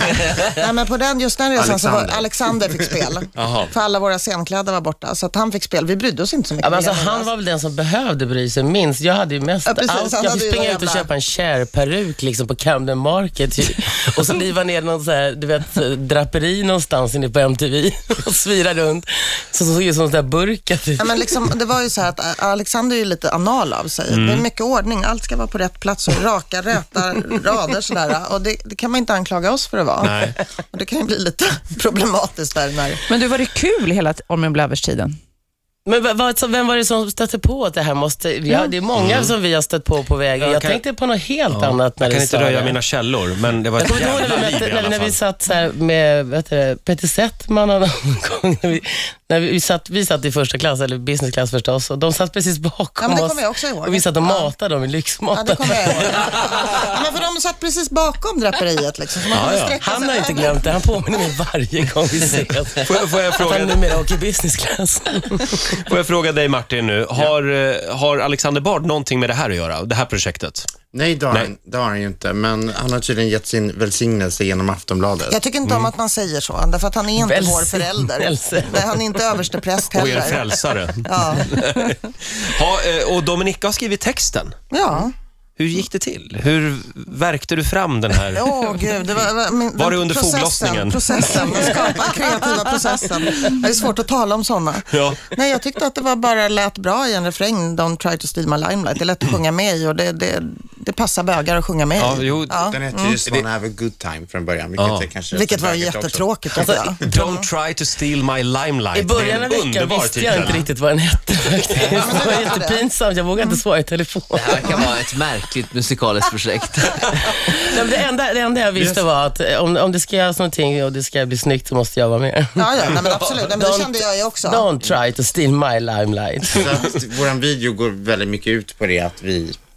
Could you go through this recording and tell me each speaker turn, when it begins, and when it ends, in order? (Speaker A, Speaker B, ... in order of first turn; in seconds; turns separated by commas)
Speaker A: 0.4-7.3, Speaker B: 1.6-3.0, Speaker C: 3.4-3.7, Speaker D: 6.6-21.3, Speaker A: 9.7-11.1, Speaker A: 21.0-33.0, Speaker C: 24.1-24.4, Speaker C: 30.0-30.4, Speaker E: 33.1-35.2, Speaker D: 35.9-42.8, Speaker C: 39.0-39.3, Speaker C: 40.4-40.8, Speaker C: 41.5-45.2, Speaker D: 43.8-56.1, Speaker A: 53.0-54.5, Speaker A: 55.3-60.7, Speaker C: 59.3-59.8, Speaker D: 59.8-65.6, Speaker C: 62.8-64.0, Speaker C: 65.7-70.7, Speaker B: 70.9-75.4, Speaker A: 75.3-81.5, Speaker C: 75.6-75.9, Speaker D: 77.2-78.9, Speaker C: 79.9-84.5, Speaker A: 84.7-85.1, Speaker C: 85.6-88.5, Speaker A: 88.3-103.2, Speaker C: 89.8-91.8, Speaker C: 94.9-95.3, Speaker C: 102.0-103.5, Speaker B: 102.5-106.8, Speaker C: 104.8-105.1, Speaker A: 105.3-107.5, Speaker C: 107.1-110.7, Speaker D: 108.9-114.8, Speaker A: 111.8-112.8, Speaker F: 114.3-117.0, Speaker D: 117.2-126.7, Speaker A: 122.5-124.7, Speaker B: 126.5-129.6